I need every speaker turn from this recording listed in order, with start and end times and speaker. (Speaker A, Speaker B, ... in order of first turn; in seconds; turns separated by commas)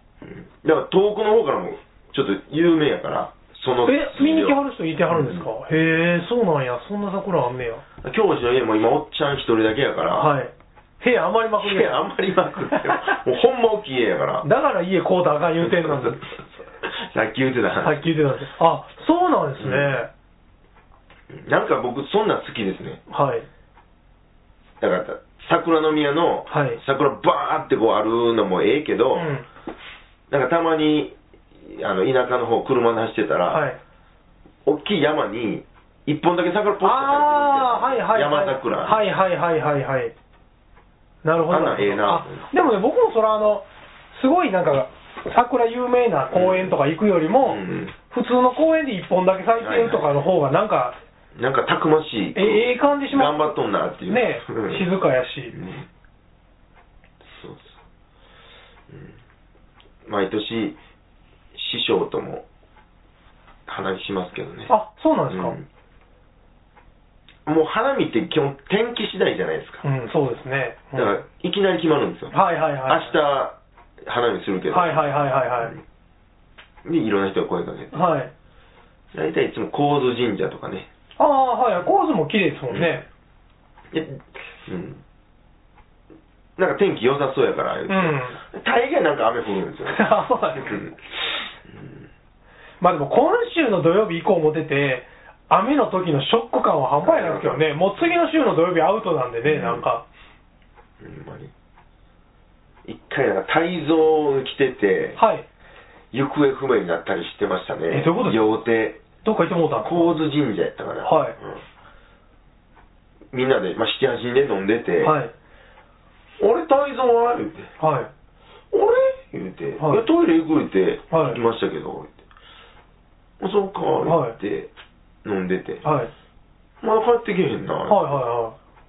Speaker A: 0.2-5.5, Speaker B: 3.8-7.8, Speaker A: 8.0-10.3, Speaker B: 10.1-13.2, Speaker A: 11.6-14.5, Speaker B: 14.4-16.2, Speaker A: 15.6-18.1, Speaker B: 17.8-20.1, Speaker A: 19.6-20.0, Speaker A: 21.3-23.0, Speaker B: 23.1-23.4, Speaker A: 24.8-29.3, Speaker B: 26.5-26.8, Speaker B: 29.1-29.4, Speaker A: 30.3-33.6, Speaker B: 33.5-33.8, Speaker A: 34.6-39.0, Speaker B: 36.8-40.1, Speaker B: 41.2-51.0, Speaker A: 41.5-42.5, Speaker A: 46.3-46.7, Speaker A: 47.4-47.9, Speaker A: 49.6-50.1, Speaker A: 51.3-54.8, Speaker B: 52.3-55.6, Speaker A: 55.5-55.9, Speaker A: 57.2-57.8, Speaker A: 58.9-59.1, Speaker A: 60.0-60.8, Speaker A: 61.5-62.4, Speaker A: 63.7-64.7, Speaker B: 64.7-65.5, Speaker A: 65.3-65.7, Speaker A: 67.5-69.8, Speaker B: 69.8-71.2, Speaker A: 70.9-72.3, Speaker B: 72.3-73.1, Speaker A: 72.9-75.8, Speaker B: 74.7-75.7, Speaker A: 76.8-78.1, Speaker B: 77.9-78.3, Speaker A: 79.1-80.9, Speaker B: 81.2-83.0, Speaker A: 82.7-83.0, Speaker A: 83.9-85.0, Speaker A: 86.6-91.0, Speaker B: 87.9-88.4, Speaker B: 89.9-90.8, Speaker A: 91.7-92.0, Speaker B: 92.8-100.0, Speaker A: 97.0-97.7, Speaker A: 99.4-99.8, Speaker A: 101.0-101.5, Speaker A: 102.8-105.2, Speaker B: 105.2-105.5, Speaker A: 106.1-109.0, Speaker B: 107.9-108.6, Speaker B: 109.2-110.1, Speaker A: 109.8-111.6, Speaker B: 111.0-111.3, Speaker A: 113.3-115.2, Speaker B: 115.0-115.3, Speaker A: 116.4-117.7, Speaker B: 117.8-118.1, Speaker A: 118.7-122.1, Speaker B: 119.8-120.0, Speaker B: 121.1-121.4, Speaker A: 123.4-124.7, Speaker B: 124.0-124.4, Speaker A: 125.2-125.8, Speaker B: 125.8-126.1, Speaker A: 126.8-128.2, Speaker B: 127.9-128.6